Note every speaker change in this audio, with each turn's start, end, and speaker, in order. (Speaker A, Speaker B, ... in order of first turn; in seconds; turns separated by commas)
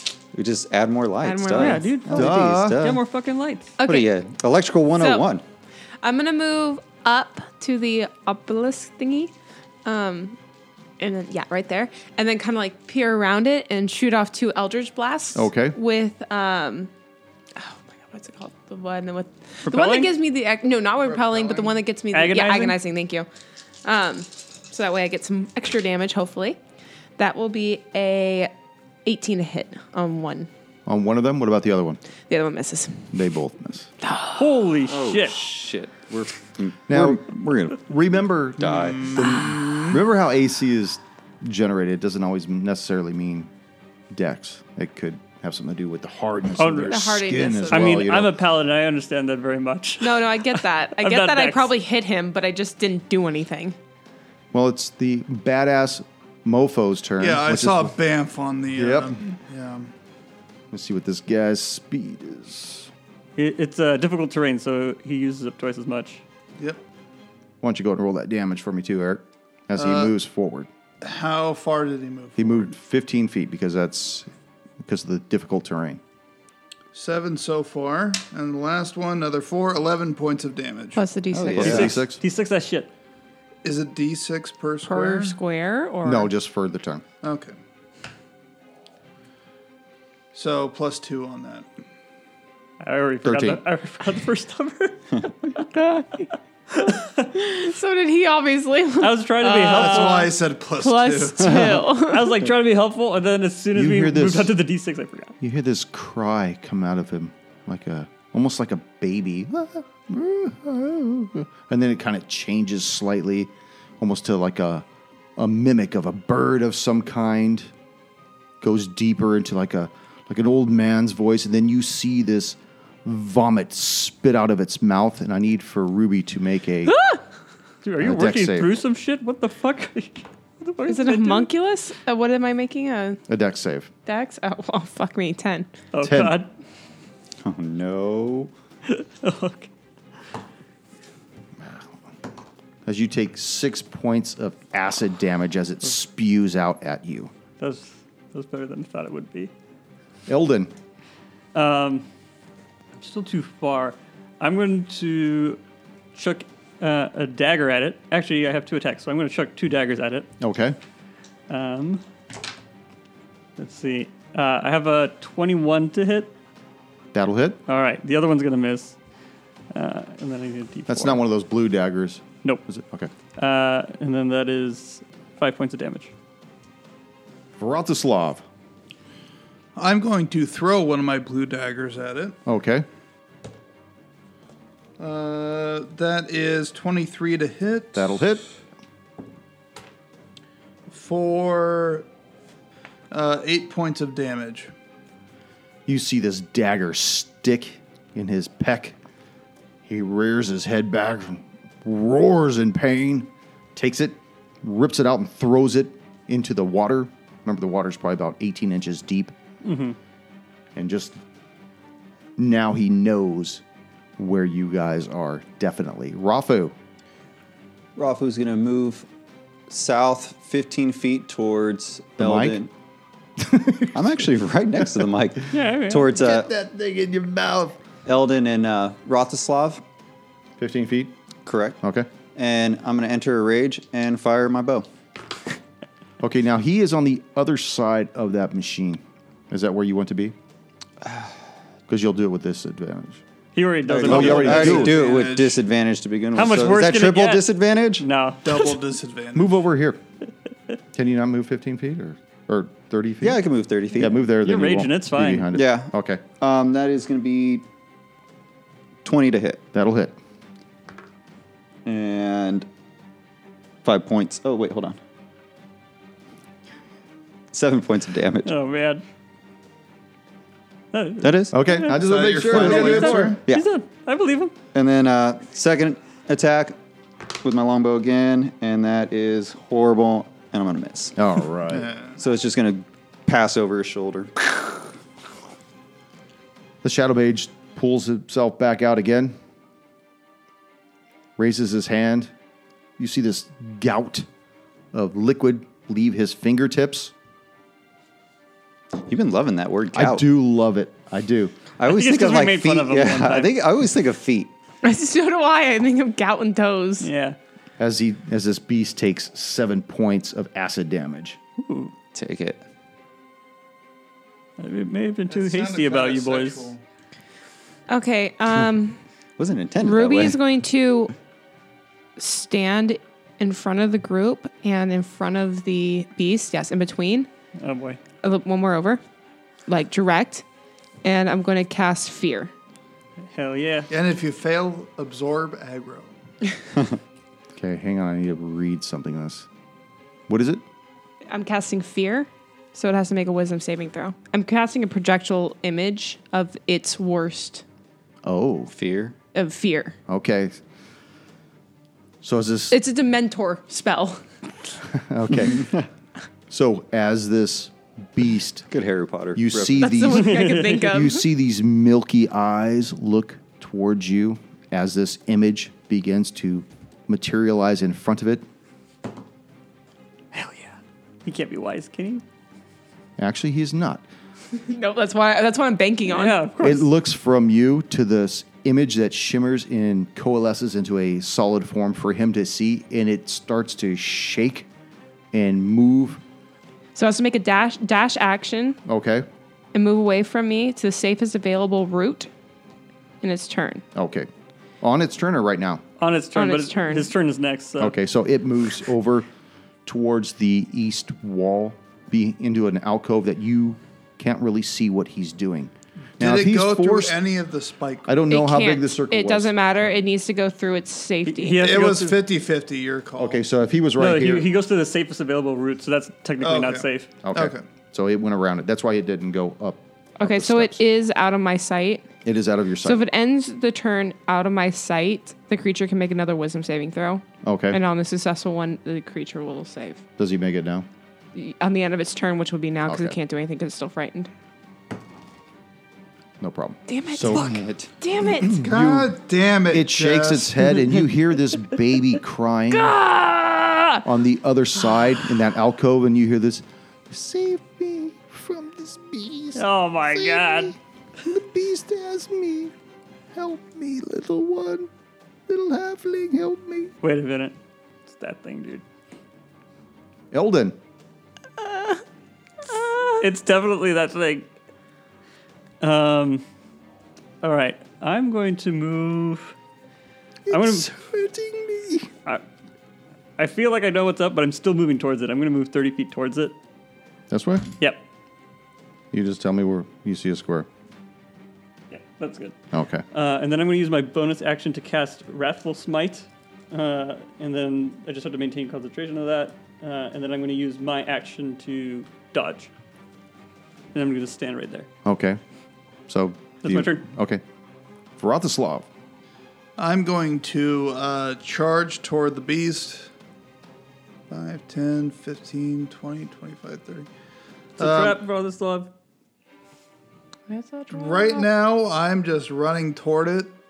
Speaker A: 0.3-3.0, Speaker B: 1.2-2.0, Speaker C: 1.6-3.7, Speaker D: 2.1-2.8, Speaker B: 3.8-4.1, Speaker A: 3.8-5.4, Speaker B: 5.0-5.3, Speaker B: 6.0-9.3, Speaker B: 9.8-10.4, Speaker B: 11.0-16.9, Speaker D: 15.3-15.8, Speaker B: 17.6-23.3, Speaker C: 19.7-20.1, Speaker E: 21.0-21.8, Speaker C: 22.1-22.8, Speaker B: 23.9-26.6, Speaker B: 27.2-28.5, Speaker B: 29.1-30.5, Speaker D: 30.9-32.0, Speaker B: 32.3-33.2, Speaker D: 33.1-33.9, Speaker B: 34.0-34.5, Speaker C: 34.4-35.5, Speaker A: 34.9-37.8, Speaker D: 36.9-43.5, Speaker A: 38.6-39.4, Speaker E: 38.8-40.0, Speaker D: 44.1-48.4, Speaker C: 46.6-47.1, Speaker B: 46.9-48.1, Speaker C: 47.7-51.7, Speaker B: 50.0-53.8, Speaker D: 54.5-57.9, Speaker E: 57.2-59.9, Speaker D: 58.8-59.2, Speaker D: 60.7-62.9, Speaker C: 63.4-66.2, Speaker D: 67.6-70.7, Speaker E: 69.8-70.1, Speaker E: 71.0-72.7, Speaker D: 72.4-74.3, Speaker D: 74.8-76.0, Speaker E: 76.9-81.0, Speaker B: 81.0-82.0, Speaker A: 81.3-82.0, Speaker D: 81.5-82.2, Speaker C: 81.6-82.9, Speaker E: 83.6-85.4, Speaker B: 84.8-86.3, Speaker D: 86.0-87.0, Speaker E: 87.2-87.5, Speaker E: 90.3-91.7, Speaker C: 92.8-95.3, Speaker D: 93.2-93.6, Speaker B: 95.6-96.3, Speaker C: 96.8-97.1, Speaker B: 97.3-102.5, Speaker C: 99.0-100.3, Speaker E: 99.5-101.6, Speaker A: 101.5-101.8, Speaker C: 102.0-105.3, Speaker D: 103.7-104.5, Speaker D: 105.4-114.8, Speaker D: 115.4-117.7, Speaker D: 118.6-127.0, Speaker B: 126.9-127.2, Speaker C: 127.8-131.5, Speaker D: 128.0-128.7, Speaker B: 130.9-133.2, Speaker D: 133.3-133.9, Speaker B: 134.1-135.7, Speaker C: 135.9-136.5, Speaker D: 136.0-136.4, Speaker A: 137.4-138.5, Speaker C: 138.9-139.7, Speaker D: 141.6-141.9, Speaker D: 142.9-147.3, Speaker C: 147.6-149.5, Speaker D: 150.3-150.7, Speaker C: 151.5-152.1, Speaker C: 153.0-155.6, Speaker C: 156.2-160.3, Speaker D: 160.4-160.8, Speaker C: 161.5-162.0, Speaker C: 163.6-166.3, Speaker D: 167.1-167.6, Speaker C: 167.7-169.0, Speaker C: 169.7-171.2, Speaker D: 170.9-173.1, Speaker C: 173.4-176.1, Speaker D: 177.6-178.4, Speaker E: 179.8-182.4, Speaker D: 182.5-182.9, Speaker E: 185.0-188.2, Speaker D: 187.9-188.4, Speaker E: 190.9-192.1, Speaker E: 193.1-194.7, Speaker D: 195.9-199.0, Speaker D: 199.8-209.3, Speaker C: 209.6-210.0, Speaker D: 210.8-211.2, Speaker D: 212.4-213.6, Speaker D: 214.2-216.7, Speaker A: 218.0-219.1, Speaker A: 219.7-222.7, Speaker D: 222.2-222.6, Speaker D: 223.4-224.3, Speaker A: 223.9-226.5, Speaker D: 224.8-225.1, Speaker C: 225.5-226.1, Speaker D: 226.1-227.8, Speaker A: 228.1-229.8, Speaker D: 230.6-231.1, Speaker A: 231.4-231.8, Speaker D: 231.8-232.1, Speaker A: 232.3-234.9, Speaker D: 236.2-240.3, Speaker D: 241.9-243.2, Speaker C: 243.6-244.9, Speaker A: 243.9-248.1, Speaker D: 244.0-245.0, Speaker E: 244.1-245.6, Speaker C: 246.3-247.5, Speaker C: 248.0-248.7, Speaker E: 248.4-249.6, Speaker D: 249.3-250.0, Speaker D: 250.9-253.4, Speaker A: 253.2-254.2, Speaker D: 253.9-256.2, Speaker C: 254.4-255.5, Speaker A: 255.5-257.6, Speaker A: 259.0-259.6, Speaker D: 259.7-260.2, Speaker A: 261.9-262.7, Speaker A: 263.8-265.0, Speaker A: 267.5-268.5, Speaker C: 268.4-269.0, Speaker C: 270.9-274.5, Speaker A: 271.2-271.6, Speaker D: 271.5-273.4, Speaker E: 271.9-273.4, Speaker A: 274.7-281.2, Speaker D: 281.2-281.9, Speaker E: 281.7-282.2, Speaker A: 282.2-284.5, Speaker D: 286.8-289.4, Speaker D: 291.4-292.3, Speaker D: 293.0-294.3, Speaker D: 294.9-297.1, Speaker A: 299.0-300.3, Speaker D: 299.9-301.5, Speaker A: 301.8-304.5, Speaker C: 301.9-303.5, Speaker B: 304.8-307.1, Speaker C: 307.0-307.4, Speaker D: 307.8-311.4, Speaker C: 311.6-311.9, Speaker A: 312.1-312.6, Speaker C: 314.6-316.7, Speaker E: 315.3-316.8, Speaker B: 317.9-319.0, Speaker A: 319.4-320.4, Speaker B: 319.8-321.1, Speaker B: 322.2-327.3, Speaker C: 327.6-328.0, Speaker B: 328.2-329.0, Speaker B: 329.7-330.4, Speaker B: 331.0-332.5, Speaker C: 333.3-333.9, Speaker E: 333.9-336.1, Speaker D: 337.6-339.5, Speaker D: 340.3-340.6, Speaker B: 341.3-347.6, Speaker D: 348.2-348.7, Speaker A: 348.7-349.2, Speaker B: 349.3-350.0, Speaker D: 350.1-350.6, Speaker D: 352.2-352.8, Speaker B: 352.7-354.2, Speaker D: 354.8-355.7, Speaker A: 355.6-355.8, Speaker D: 356.5-358.7, Speaker A: 358.7-360.0, Speaker D: 359.4-368.4, Speaker B: 359.8-361.2, Speaker C: 360.1-361.0, Speaker C: 370.3-372.2, Speaker D: 373.2-374.1, Speaker B: 374.6-376.4, Speaker C: 376.1-376.9, Speaker D: 376.6-384.7, Speaker D: 385.3-386.2, Speaker B: 387.0-388.8, Speaker D: 388.9-389.3, Speaker B: 389.7-392.3, Speaker B: 393.2-393.8, Speaker D: 393.9-394.3, Speaker D: 394.8-395.8, Speaker C: 396.0-397.9, Speaker B: 396.4-397.1, Speaker D: 397.8-399.3, Speaker D: 399.9-407.2, Speaker E: 406.2-408.1, Speaker D: 408.1-409.5, Speaker B: 408.3-411.8, Speaker C: 411.3-412.2, Speaker E: 411.6-413.4, Speaker D: 413.2-414.5, Speaker C: 414.0-417.1, Speaker E: 416.4-417.6, Speaker D: 417.2-420.8, Speaker B: 420.2-422.1, Speaker D: 422.2-423.0, Speaker B: 422.8-430.0, Speaker D: 427.4-427.8, Speaker D: 430.2-430.9, Speaker B: 431.3-434.3, Speaker D: 432.9-433.2, Speaker D: 436.4-437.6, Speaker B: 436.9-438.6, Speaker A: 437.3-437.9, Speaker D: 438.2-439.1, Speaker E: 438.4-440.8, Speaker D: 439.7-442.9, Speaker B: 442.7-444.1, Speaker D: 444.1-452.7, Speaker C: 449.6-450.7, Speaker D: 453.3-454.9, Speaker D: 455.5-456.9, Speaker C: 457.0-457.6, Speaker C: 458.1-458.8, Speaker D: 460.3-460.8, Speaker B: 461.6-462.0, Speaker B: 462.7-463.2, Speaker C: 463.1-464.5, Speaker C: 465.8-466.4, Speaker C: 467.4-469.5, Speaker D: 470.5-472.1, Speaker C: 470.5-470.9, Speaker C: 473.4-476.6, Speaker D: 477.3-477.7, Speaker D: 479.1-480.7, Speaker C: 481.9-482.6, Speaker D: 482.7-483.1, Speaker C: 483.1-492.7, Speaker C: 493.9-494.9, Speaker D: 495.1-495.4, Speaker D: 496.1-497.4, Speaker C: 496.6-497.0, Speaker D: 498.2-498.9, Speaker E: 499.8-503.1, Speaker E: 504.3-507.1, Speaker E: 507.8-508.2, Speaker C: 507.8-508.9, Speaker B: 510.5-511.5, Speaker E: 510.9-513.5